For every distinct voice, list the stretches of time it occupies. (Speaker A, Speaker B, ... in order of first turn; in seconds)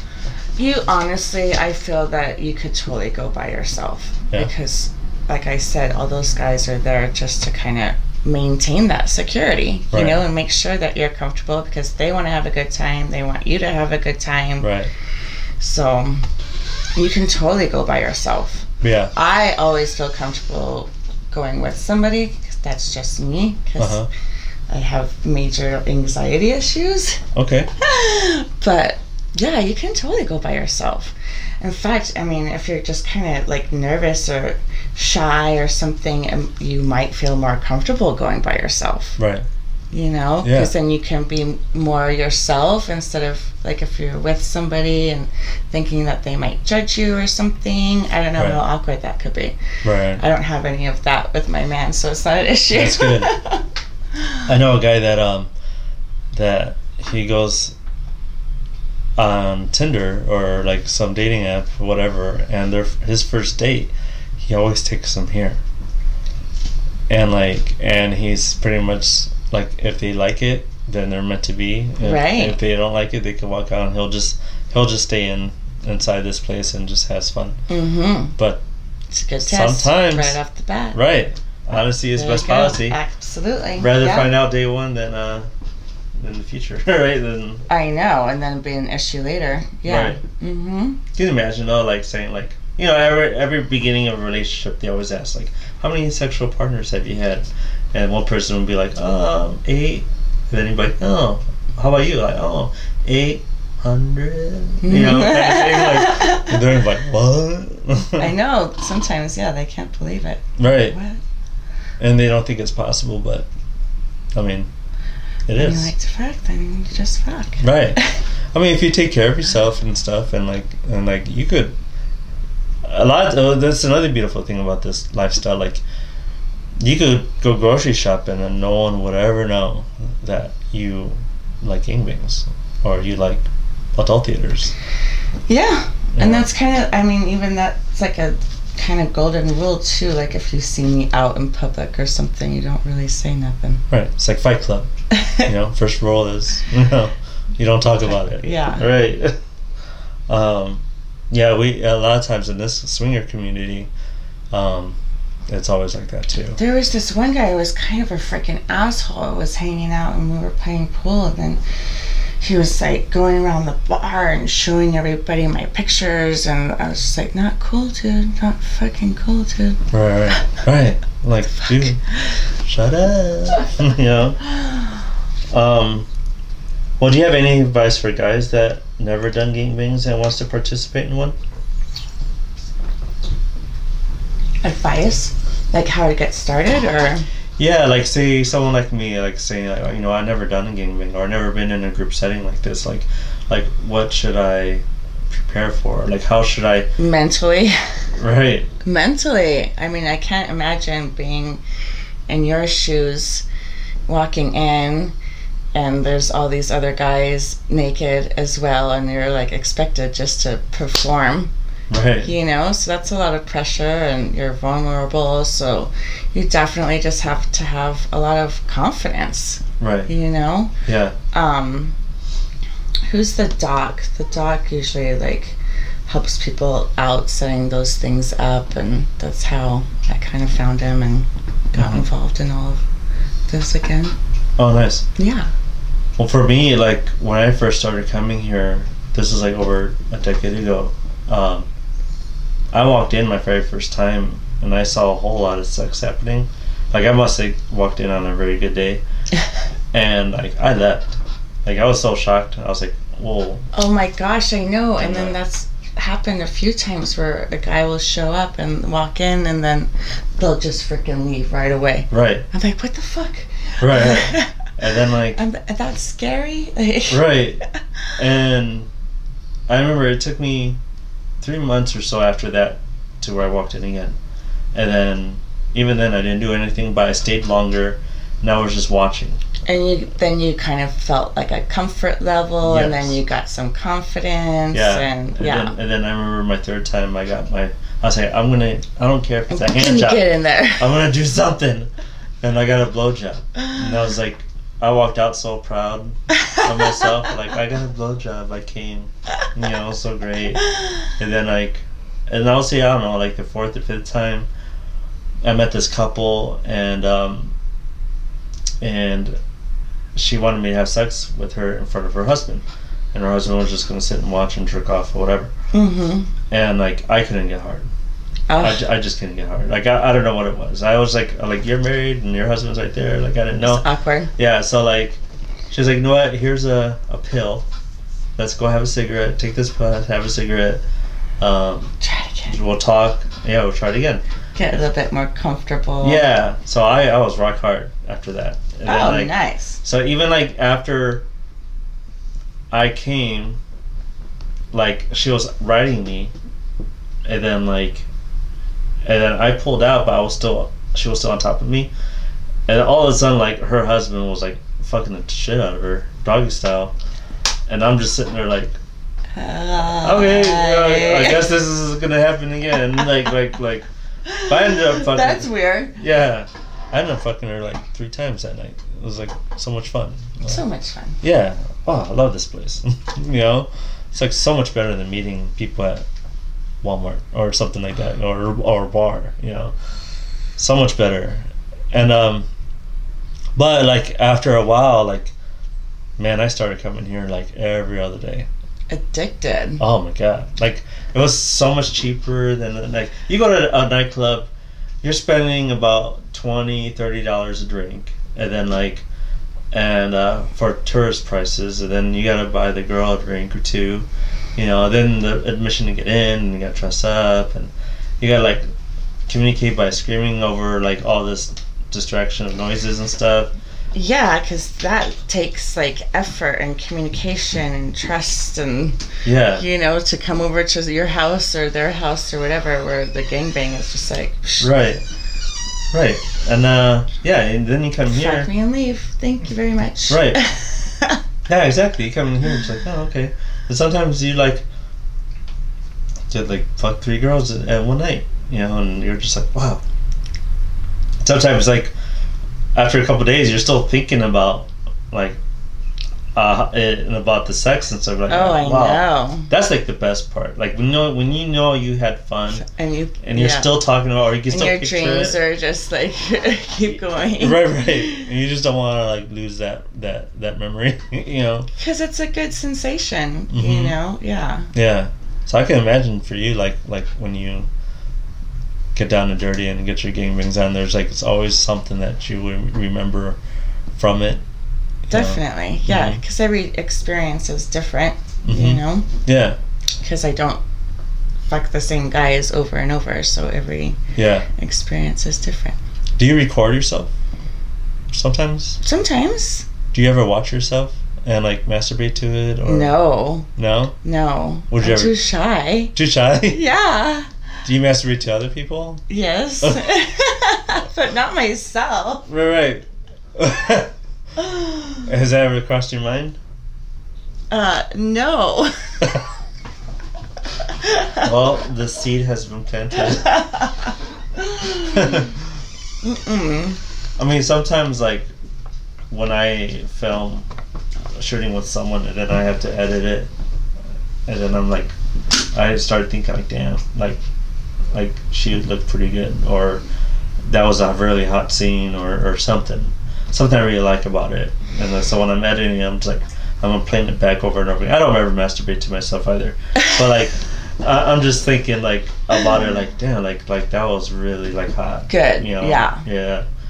Speaker A: 0.6-14.7, 15.6-16.3, 17.0-24.1, 24.7-27.2, 27.8-39.2, 39.9-49.6, 50.2-53.6, 72.0-72.6, 77.7-78.3, 79.1-81.0, 82.2-84.3, 87.7-91.0, 104.8-106.7, 108.2-111.2, 115.5-118.2, 135.5-143.8, 145.1-145.5, 148.2-148.9, 156.6-161.6, 162.4-169.8, 184.6-187.3, 197.0-197.8, 198.8-201.6, 202.3-203.4, 204.1-205.2, 205.7-211.5, 212.2-220.7, 221.3-221.9, 223.1-232.8, 233.5-234.2, 235.2-235.5, 253.7-264.6, 265.3-267.4, 279.7-285.8, 289.5-291.0, 315.7-316.3, 318.5-318.9, 323.6-324.3, 332.0-332.6, 334.6-336.3, 338.9-339.8, 359.4-361.5, 364.3-366.0, 370.4-371.2, 388.9-389.8, 413.9-419.0, 419.6-424.7, 428.1-431.2, 448.3-449.5, 452.5-453.8, 454.5-458.3, 461.8-464.7, 475.1-479.1, 480.0-480.6, 481.5-484.0, 484.6-485.8, 488.8-489.7, 492.6-493.5, 494.0-495.9, 496.5-497.3, 499.1-502.3, 504.4-505.0, 507.5-509.1, 510.8-511.3, 513.1-515.3, 516.0-516.8, 545.1-546.0
Speaker B: 9.9-10.2, 14.6-14.9, 18.8-19.1, 23.8-24.1, 27.4-27.7, 39.2-39.5, 40.4-40.7, 49.8-50.2, 52.7-53.3, 54.5-55.5, 56.3-57.8, 59.2-65.6, 67.1-77.6, 78.4-78.6, 79.4-80.4, 80.9-83.0, 83.8-85.5, 86.2-87.7, 89.9-90.2, 91.1-108.3, 110.6-111.0, 112.0-113.5, 114.3-114.7, 115.5-115.9, 117.6-118.0, 118.5-121.8, 122.8-125.8, 126.8-134.7, 136.2-136.5, 143.9-144.9, 145.4-149.4, 150.3-153.9, 154.5-155.0, 155.5-156.6, 169.9-172.0, 172.7-174.6, 175.5-176.1, 177.0-181.4, 187.6-196.9, 198.2-198.7, 211.9-212.3, 219.8-220.1, 220.9-221.2, 231.8-232.1, 234.6-235.1, 236.2-241.7, 242.7-249.0, 249.9-251.1, 251.7-253.7, 255.0-255.4, 262.1-262.4, 263.8-265.4, 267.1-267.6, 268.2-268.9, 269.7-270.8, 271.4-274.2, 274.7-279.4, 282.6-283.2, 284.7-290.2, 290.8-291.9, 292.4-304.5, 305.4-307.6, 308.8-309.4, 310.1-315.5, 316.5-317.9, 318.6-323.9, 324.4-325.2, 325.7-327.7, 328.4-330.8, 331.4-331.9, 332.5-334.2, 336.0-341.2, 342.7-343.6, 344.7-346.3, 347.3-348.1, 349.1-351.9, 352.7-356.9, 357.7-358.8, 360.0-363.9, 364.5-370.6, 371.2-376.1, 376.8-379.7, 380.6-382.5, 383.6-385.4, 386.2-388.5, 389.8-394.5, 395.0-399.1, 399.7-408.6, 409.3-413.5, 419.2-419.6, 424.6-425.0, 425.9-428.5, 430.1-430.4, 431.5-434.6, 436.3-439.8, 441.2-441.9, 442.8-445.4, 446.4-452.6, 453.2-455.4, 457.4-461.7, 463.5-464.0, 464.7-467.7, 468.9-473.4, 473.9-474.4, 475.1-476.2, 478.5-479.6, 484.1-484.5, 486.2-487.1, 488.1-488.8, 489.9-493.0, 493.6-494.0, 494.7-495.2, 495.9-496.6, 497.6-499.0, 502.3-502.9, 503.4-503.9, 505.1-506.4, 511.2-513.5, 514.8-515.3, 517.2-518.3, 519.1-520.5, 521.1-523.3, 524.3-525.0, 525.5-527.2, 527.9-529.9, 530.5-546.5